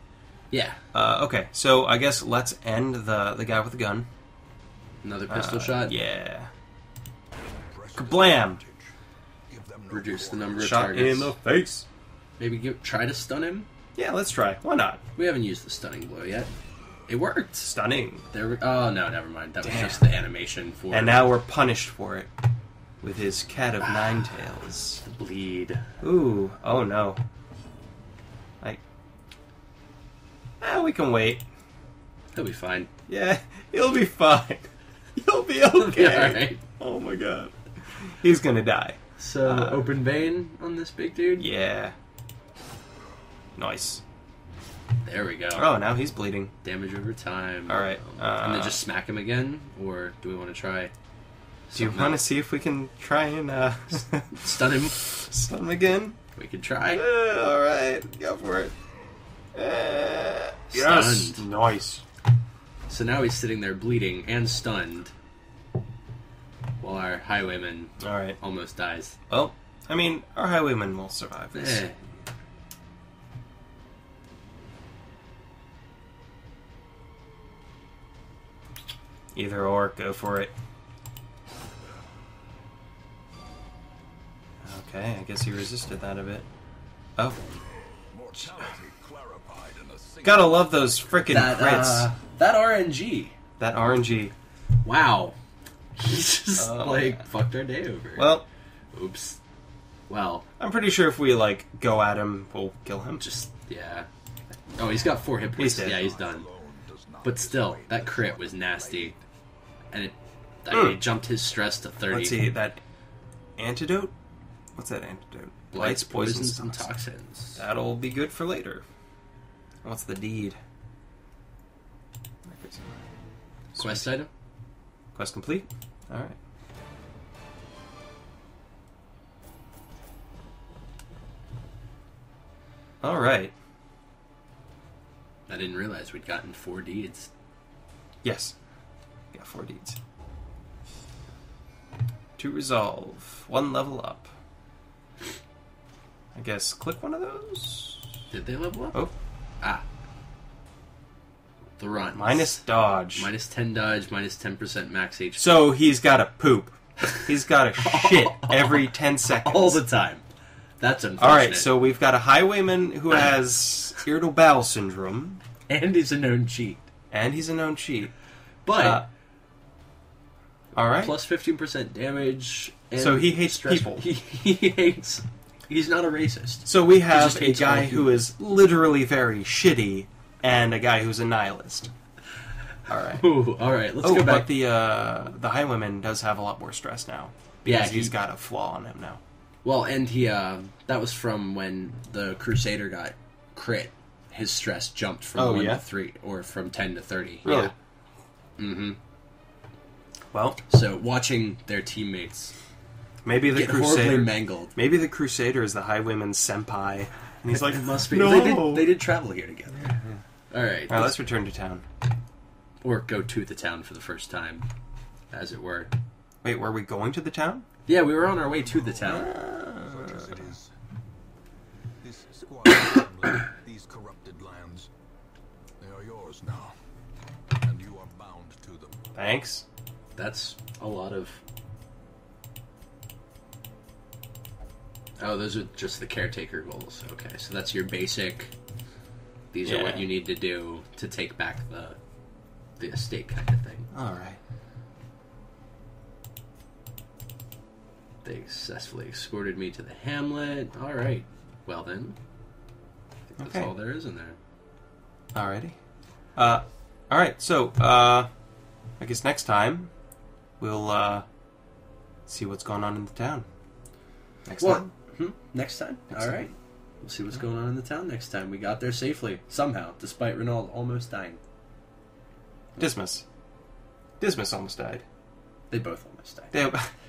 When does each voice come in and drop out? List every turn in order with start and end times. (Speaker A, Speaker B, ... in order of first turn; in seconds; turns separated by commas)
Speaker A: 0.5-0.8, Speaker B: 0.9-4.1, Speaker A: 5.0-6.0, Speaker B: 5.3-6.5, Speaker C: 7.7-8.9, Speaker B: 8.0-8.6, Speaker C: 9.5-10.9, Speaker A: 9.9-11.4, Speaker B: 10.5-11.8, Speaker A: 12.4-13.7, Speaker B: 14.0-15.0, Speaker A: 15.2-16.5, Speaker A: 17.1-17.7, Speaker B: 17.6-18.2, Speaker A: 18.3-21.3, Speaker B: 19.6-20.0, Speaker B: 20.9-22.3, Speaker B: 23.0-25.0, Speaker A: 23.8-24.4, Speaker A: 25.0-25.9, Speaker B: 26.0-27.2, Speaker B: 30.6-31.4, Speaker A: 32.3-32.9, Speaker B: 33.1-39.9, Speaker A: 35.7-36.6, Speaker A: 39.2-41.5, Speaker B: 41.4-41.9, Speaker B: 43.6-44.0, Speaker A: 45.0-45.7, Speaker B: 45.5-46.5, Speaker A: 46.6-50.9, Speaker B: 47.7-48.8, Speaker A: 51.7-52.3, Speaker B: 51.8-56.2, Speaker A: 54.3-55.0, Speaker A: 56.4-57.0, Speaker B: 56.9-58.7, Speaker B: 59.5-62.0, Speaker A: 60.7-61.5, Speaker A: 62.9-65.1, Speaker A: 66.8-69.2, Speaker B: 68.0-68.4, Speaker B: 69.3-71.8, Speaker A: 71.5-72.0, Speaker B: 79.3-80.5, Speaker B: 84.6-86.5, Speaker C: 88.1-90.8, Speaker B: 90.2-92.1, Speaker A: 91.3-93.3, Speaker B: 93.6-94.3, Speaker A: 94.8-95.4, Speaker A: 96.0-98.3, Speaker B: 96.6-97.3, Speaker B: 98.2-98.4, Speaker A: 98.9-99.4, Speaker A: 100.1-100.5, Speaker B: 100.6-103.2, Speaker A: 103.2-104.1, Speaker A: 104.8-106.5, Speaker B: 105.6-106.1, Speaker C: 105.9-109.2, Speaker A: 107.2-109.1, Speaker A: 109.9-112.5, Speaker B: 110.7-111.0, Speaker B: 112.1-112.8, Speaker B: 113.6-114.1, Speaker B: 114.8-116.9, Speaker A: 115.7-117.6, Speaker B: 117.6-118.8, Speaker B: 119.8-120.6, Speaker B: 122.5-123.0, Speaker B: 123.8-124.1, Speaker A: 123.8-124.3, Speaker B: 125.2-126.4, Speaker B: 133.0-133.5, Speaker A: 135.5-137.3, Speaker B: 138.2-138.5, Speaker B: 139.3-140.0, Speaker B: 142.4-144.3, Speaker B: 146.3-148.1, Speaker A: 148.3-149.1, Speaker A: 151.8-155.7, Speaker B: 152.1-153.3, Speaker B: 155.4-159.8, Speaker A: 157.8-160.2, Speaker A: 160.8-161.8, Speaker B: 161.2-165.4, Speaker A: 163.1-163.4, Speaker A: 165.7-166.9, Speaker B: 167.1-168.1, Speaker A: 168.7-169.0, Speaker B: 168.7-169.1, Speaker B: 170.8-171.2, Speaker A: 170.9-178.2, Speaker B: 173.0-174.1, Speaker B: 176.7-181.9, Speaker B: 182.9-183.3, Speaker A: 183.1-184.5, Speaker B: 184.0-189.2, Speaker A: 187.7-188.1, Speaker A: 189.6-197.7, Speaker B: 195.4-195.8, Speaker B: 197.4-197.7, Speaker A: 198.6-199.0, Speaker B: 200.3-200.6, Speaker A: 200.7-202.5, Speaker B: 203.2-208.9, Speaker A: 203.5-204.8, Speaker A: 207.5-210.0, Speaker B: 209.8-210.2, Speaker A: 210.5-211.2, Speaker B: 210.9-211.8, Speaker A: 212.8-214.7, Speaker A: 215.3-215.9, Speaker B: 216.4-217.7, Speaker A: 217.9-219.3, Speaker C: 218.4-220.7, Speaker B: 219.1-220.3, Speaker C: 222.0-224.9, Speaker C: 225.8-226.7, Speaker C: 227.6-229.0, Speaker B: 229.2-229.7, Speaker A: 230.2-231.4, Speaker A: 235.2-238.5, Speaker A: 239.5-242.0, Speaker B: 239.6-240.1, Speaker A: 242.8-243.9, Speaker B: 243.9-244.4, Speaker A: 248.2-252.2, Speaker A: 253.3-254.4, Speaker B: 253.4-253.7, Speaker B: 255.3-255.8, Speaker B: 256.4-258.3, Speaker B: 259.0-259.9, Speaker B: 260.6-261.2, Speaker B: 262.3-263.5, Speaker B: 264.5-264.9, Speaker A: 264.6-271.4, Speaker B: 266.1-266.4, Speaker B: 272.8-273.2, Speaker B: 274.2-275.1, Speaker A: 275.7-276.6, Speaker B: 276.5-276.9